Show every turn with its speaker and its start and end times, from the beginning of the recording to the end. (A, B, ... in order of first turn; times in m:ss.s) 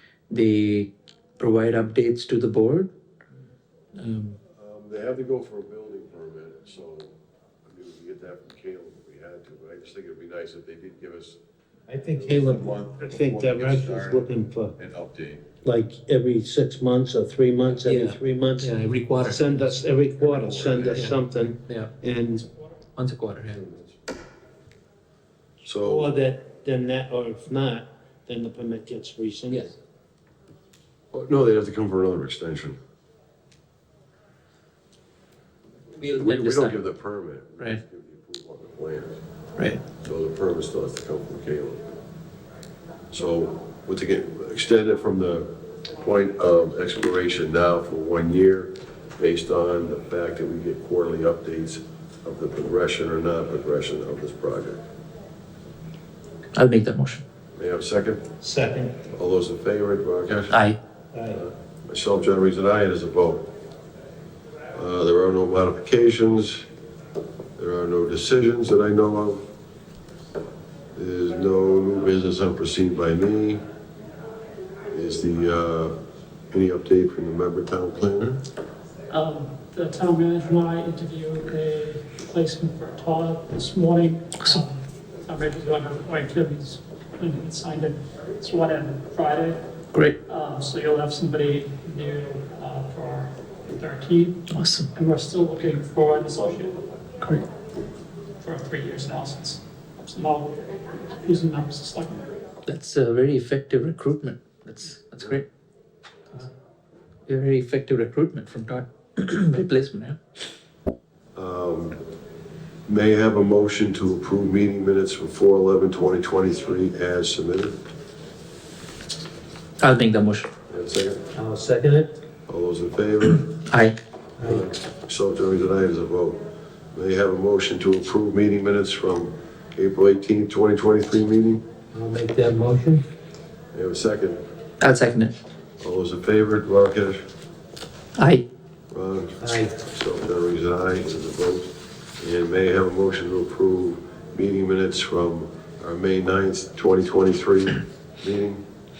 0:00.3-0:02.9 A
0:04.0-0:04.4 A
0:04.6-0:07.1 B
0:07.6-0:11.4 B
0:11.9-0:14.7 C
0:12.1-0:15.5 B
0:15.6-0:22.4 C
0:17.8-0:19.7 A
0:20.2-0:21.1 B
0:20.8-0:21.2 A
0:21.7-0:21.9 A
0:23.0-0:23.6 A
0:23.5-0:23.9 B
0:25.6-0:26.1 B
0:25.8-0:29.7 C
0:31.1-0:32.8 B
0:35.9-0:36.8 A
0:36.2-0:39.2 B
0:39.6-0:39.8 A
0:40.0-0:41.9 B
0:43.1-0:54.8 B
0:56.5-0:57.2 A
0:57.6-0:58.3 B
0:58.4-0:59.0 C
0:59.1-1:00.5 B
1:00.5-1:00.8 A
1:01.1-1:01.4 C
1:01.3-1:03.5 B
1:04.7-1:06.6 B
1:07.6-1:09.4 B
1:10.9-1:13.6 B
1:14.9-1:15.9 B
1:16.5-1:18.4 B
1:19.1-1:29.6 D
1:30.2-1:36.9 D
1:34.5-1:34.9 A
1:38.4-1:42.3 D
1:42.6-1:45.4 A
1:47.3-1:50.2 A
1:51.3-1:52.0 B
1:52.9-1:57.8 B
1:59.8-2:00.5 A
2:00.7-2:01.3 B
2:01.3-2:02.2 C
2:02.5-2:03.6 B
2:03.6-2:03.9 A
2:04.4-2:04.7 C
2:04.4-2:06.4 B
2:06.9-2:11.6 B
2:11.9-2:13.0 C
2:13.7-2:14.4 B
2:14.8-2:15.4 A
2:15.8-2:17.2 B
2:18.2-2:18.4 A
2:18.9-2:28.6 B
2:19.4-2:19.8 C